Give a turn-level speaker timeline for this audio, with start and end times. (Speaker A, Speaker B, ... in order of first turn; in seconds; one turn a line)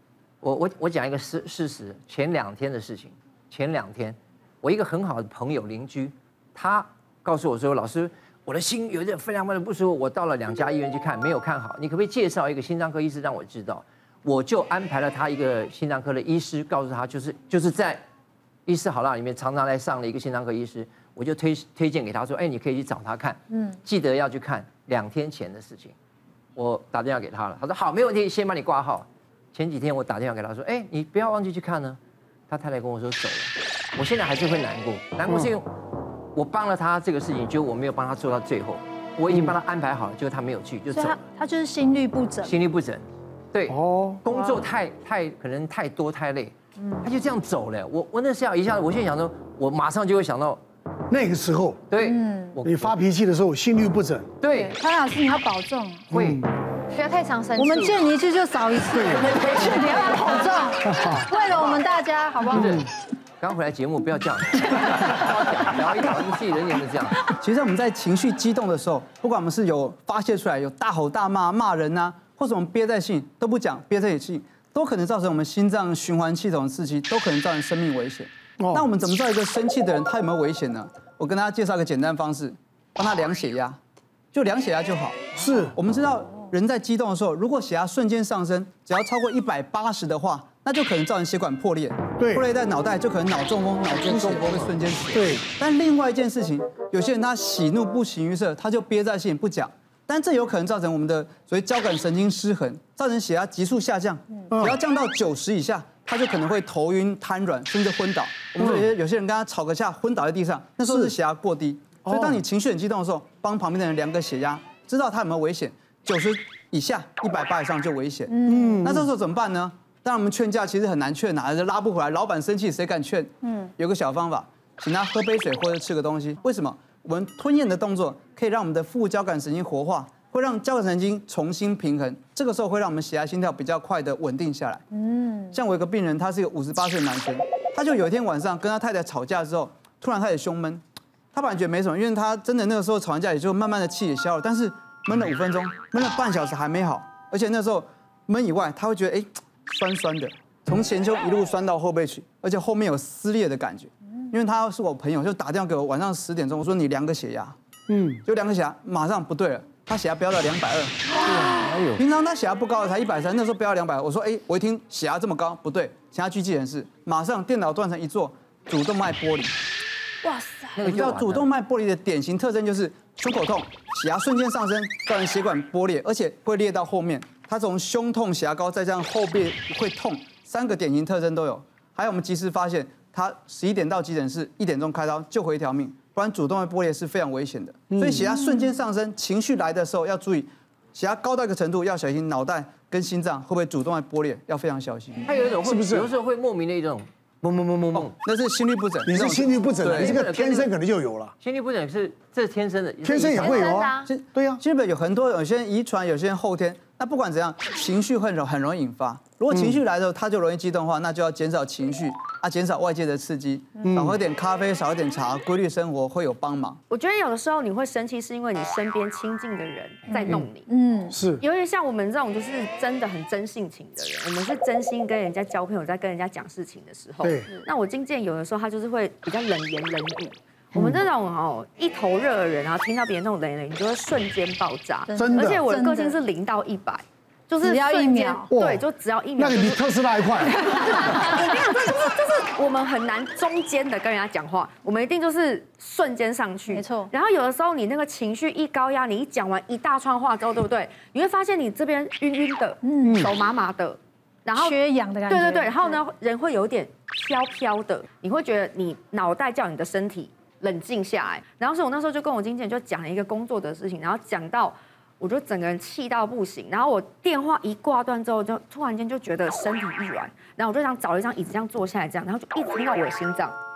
Speaker A: 0.4-18.0
Speaker A: 18.6-25.9
Speaker B: 23.5-23.8
Speaker A: 26.6-35.7
Speaker A: 36.3-41.2
Speaker B: 40.9-42.6
Speaker A: 42.4-50.6
Speaker C: 43.7-44.2
Speaker B: 44.3-44.5
Speaker C: 51.1-51.8
Speaker A: 51.9-53.0
Speaker B: 52.0-52.6
Speaker C: 52.6-54.3
Speaker A: 54.4-54.8
Speaker B: 54.5-56.1
Speaker A: 56.1-56.5
Speaker C: 56.1-56.5
Speaker D: 56.9-58.0
Speaker B: 57.5-62.8
Speaker C: 58.9-59.3
Speaker A: 59.3-60.7
Speaker C: 60.9-61.3
Speaker A: 61.5-61.8
Speaker A: 62.5-62.9
Speaker C: 62.6-62.9
Speaker A: 63.4-67.2
Speaker E: 67.4-83.8
Speaker C: 78.6-78.9
Speaker E: 84.3-134.8
Speaker C: 85.3-85.7
Speaker C: 92.2-92.5
Speaker C: 94.1-94.4
Speaker C: 95.1-95.4
Speaker C: 104.5-104.8
Speaker C: 108.6-108.8
Speaker C: 112.0-112.4
Speaker B: 118.3-118.8
Speaker C: 118.4-119.0
Speaker B: 123.4-123.7
Speaker B: 134.9-135.5
Speaker E: 135.5-140.8
Speaker E: 141.3-157.6
Speaker C: 157.9-158.2
Speaker E: 158.2-169.5
Speaker A: 161.2-162.0
Speaker B: 161.2-161.7
Speaker B: 170.2-170.8
Speaker A: 170.8-171.5
Speaker E: 170.8-195.2
Speaker C: 187.9-188.3
Speaker A: 195.2-198.1
Speaker C: 195.6-196.1
Speaker E: 197.9-200.2
Speaker C: 199.1-201.3
Speaker A: 199.8-200.7
Speaker A: 201.4-203.8
Speaker C: 203.0-204.6
Speaker D: 203.4-204.1
Speaker E: 204.0-216.8
Speaker C: 209.5-209.8
Speaker C: 213.8-214.2
Speaker D: 216.9-220.7
Speaker B: 220.1-221.2
Speaker C: 221.1-221.4
Speaker D: 221.4-239.8
Speaker C: 227.2-227.5
Speaker B: 235.1-236.2
Speaker C: 235.2-235.6
Speaker B: 237.6-238.5
Speaker C: 238.5-238.8
Speaker C: 239.3-241.1
Speaker D: 240.7-273.6
Speaker B: 240.9-241.2
Speaker B: 246.7-247.1
Speaker B: 252.8-253.2
Speaker C: 253.0-253.3
Speaker B: 254.6-256.0